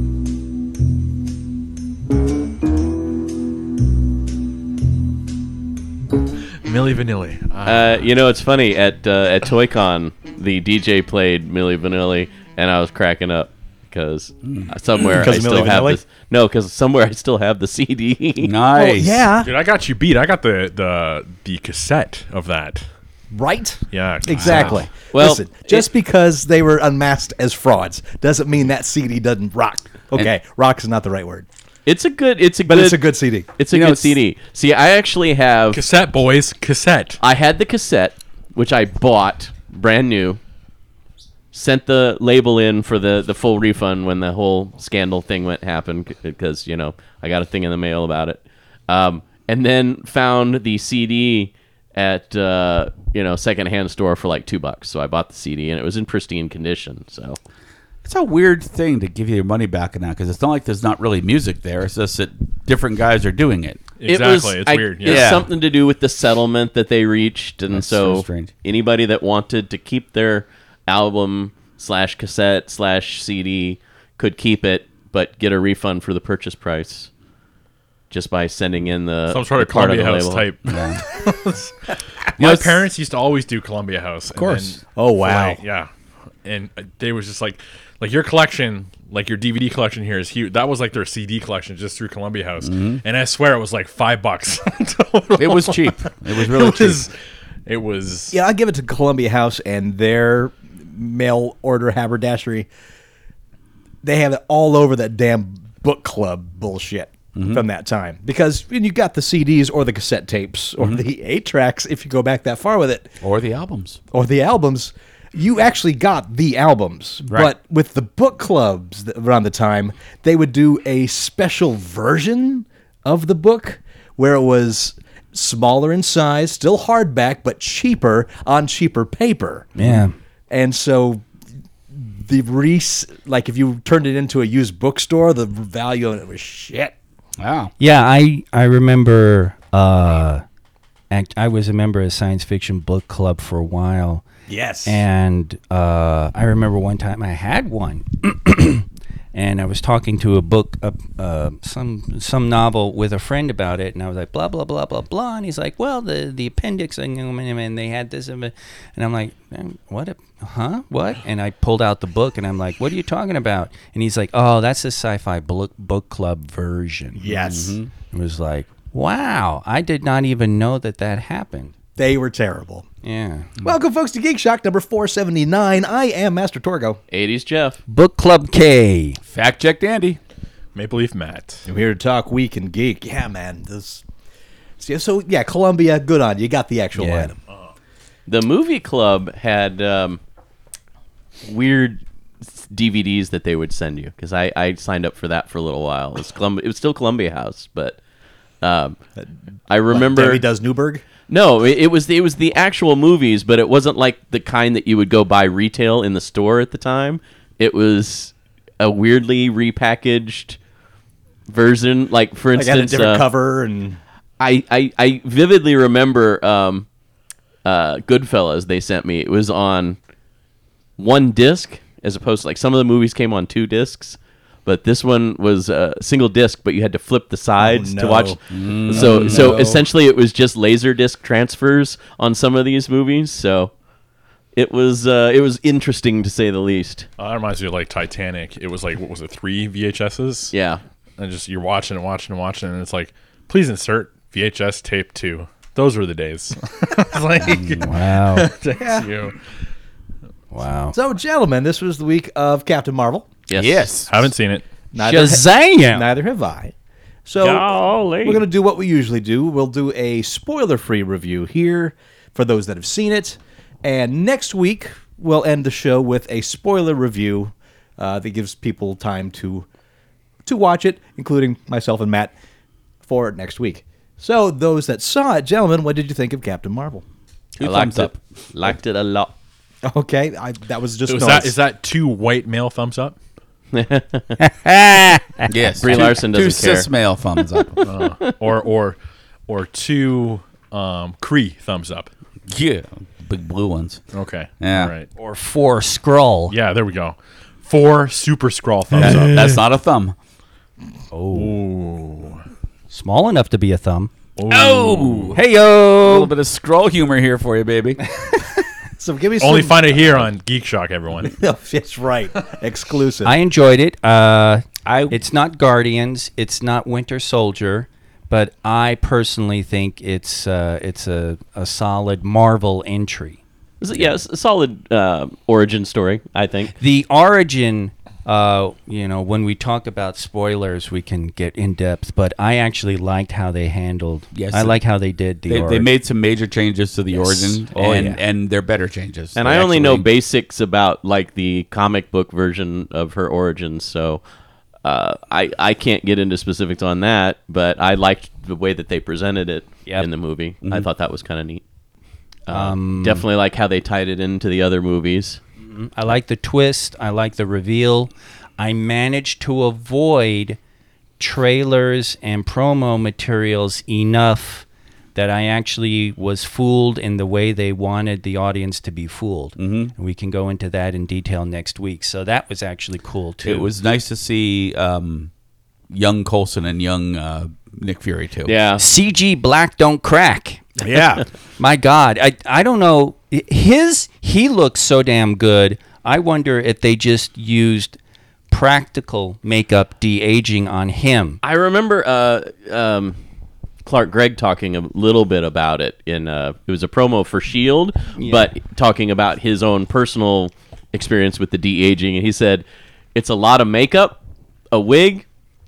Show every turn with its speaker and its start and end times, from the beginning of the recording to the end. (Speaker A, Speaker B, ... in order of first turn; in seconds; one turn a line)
Speaker A: 6.6-8.0
Speaker B: 7.7-18.5
Speaker C: 14.4-14.7
Speaker D: 15.0-16.0
Speaker C: 18.4-19.3
Speaker D: 18.7-19.5
Speaker A: 19.4-22.9
Speaker D: 23.3-31.5
Speaker A: 23.9-24.8
Speaker C: 24.4-24.7
Speaker B: 24.9-25.9
Speaker B: 31.9-33.0
Speaker D: 32.7-33.5
Speaker B: 33.6-35.8
Speaker C: 33.7-34.2
Speaker A: 35.7-37.2
Speaker B: 37.2-40.4
Speaker B: 41.5-57.4
Speaker C: 58.0-63.8
Speaker A: 64.0-65.3
Speaker B: 64.1-77.1
Speaker C: 65.0-65.5
Speaker C: 67.7-68.5
Speaker B: 78.1-80.5
Speaker A: 79.3-85.9
Speaker C: 80.7-81.0
Speaker D: 84.4-85.6
Speaker A: 86.4-97.1
Speaker C: 92.6-93.0
Speaker C: 95.4-97.0
Speaker A: 97.7-98.4
Speaker D: 98.3-102.7
Speaker D: 104.0-113.1
Speaker C: 107.4-107.7
Speaker C: 113.2-114.0
Speaker D: 114.1-129.7
Speaker C: 129.8-130.1
Speaker E: 129.8-130.2
Speaker D: 130.5-131.2
Speaker D: 131.9-136.9
Speaker C: 137.4-137.7
Speaker E: 137.8-140.4
Speaker E: 141.1-144.2
Speaker D: 144.5-145.0
Speaker E: 144.8-167.2
Speaker D: 167.2-167.8
Speaker C: 167.4-167.9
Speaker E: 168.1-171.7
Speaker D: 172.0-172.8
Speaker E: 173.0-173.5
Speaker D: 173.6-177.0
Speaker B: 177.1-177.8
Speaker E: 177.9-179.2
Speaker C: 179.3-180.2
Speaker A: 180.8-181.7
Speaker D: 181.7-184.0
Speaker D: 184.8-187.4
Speaker E: 187.0-187.3
Speaker B: 188.3-190.2
Speaker B: 191.5-192.0
Speaker B: 192.6-198.0
Speaker B: 198.6-199.0
Speaker B: 199.7-200.4
Speaker D: 199.9-201.1
Speaker B: 201.3-210.6
Speaker B: 211.5-213.3
Speaker D: 212.6-214.0
Speaker B: 214.4-216.9
Speaker B: 217.7-220.0
Speaker B: 221.0-233.7
Speaker D: 227.6-228.4
Speaker C: 228.5-229.8
Speaker D: 228.9-229.8
Speaker B: 234.6-237.1
Speaker A: 237.2-240.5
Speaker B: 240.5-240.8
Speaker A: 241.2-249.4
Speaker C: 247.4-247.8
Speaker E: 247.8-248.5
Speaker D: 248.7-249.1
Speaker E: 250.5-251.0
Speaker D: 250.9-253.3
Speaker B: 253.5-253.9
Speaker C: 253.6-254.1
Speaker A: 254.1-254.7
Speaker D: 254.9-256.7
Speaker E: 255.0-256.0
Speaker D: 257.3-269.7
Speaker B: 257.4-258.4
Speaker D: 270.4-272.3
Speaker D: 273.1-277.1
Speaker C: 277.6-278.2
Speaker B: 277.6-279.3
Speaker D: 279.9-281.6
Speaker A: 281.1-283.1
Speaker B: 283.7-284.4
Speaker E: 284.4-285.5
Speaker C: 285.5-287.8
Speaker B: 285.8-286.9
Speaker A: 287.8-292.1
Speaker B: 288.0-288.4
Speaker C: 292.5-294.0
Speaker A: 294.1-295.1
Speaker C: 294.6-294.9
Speaker E: 295.2-296.6
Speaker A: 296.5-299.6
Speaker C: 298.9-300.2
Speaker E: 301.1-301.6
Speaker A: 301.3-302.4
Speaker E: 302.9-304.1
Speaker A: 304.4-305.4
Speaker C: 304.5-305.4
Speaker E: 305.3-306.3
Speaker C: 306.0-308.0
Speaker E: 308.2-308.5
Speaker D: 309.0-310.2
Speaker A: 309.4-311.4
Speaker D: 311.3-313.3
Speaker E: 313.2-323.4
Speaker C: 314.9-315.2
Speaker B: 323.8-326.7
Speaker E: 326.8-335.9
Speaker C: 334.3-334.8
Speaker C: 335.5-340.1
Speaker E: 337.3-338.2
Speaker B: 339.4-344.2
Speaker B: 344.8-351.6
Speaker B: 352.5-355.4
Speaker E: 352.5-353.2
Speaker E: 355.6-360.6
Speaker E: 361.2-373.7
Speaker C: 369.6-369.9
Speaker C: 373.4-375.3
Speaker C: 375.9-378.6
Speaker B: 378.5-378.8
Speaker E: 378.8-380.8
Speaker C: 380.8-381.2
Speaker E: 381.6-388.0
Speaker E: 388.5-391.4
Speaker B: 391.4-393.2
Speaker B: 393.9-404.2
Speaker E: 398.2-398.5
Speaker B: 404.7-405.3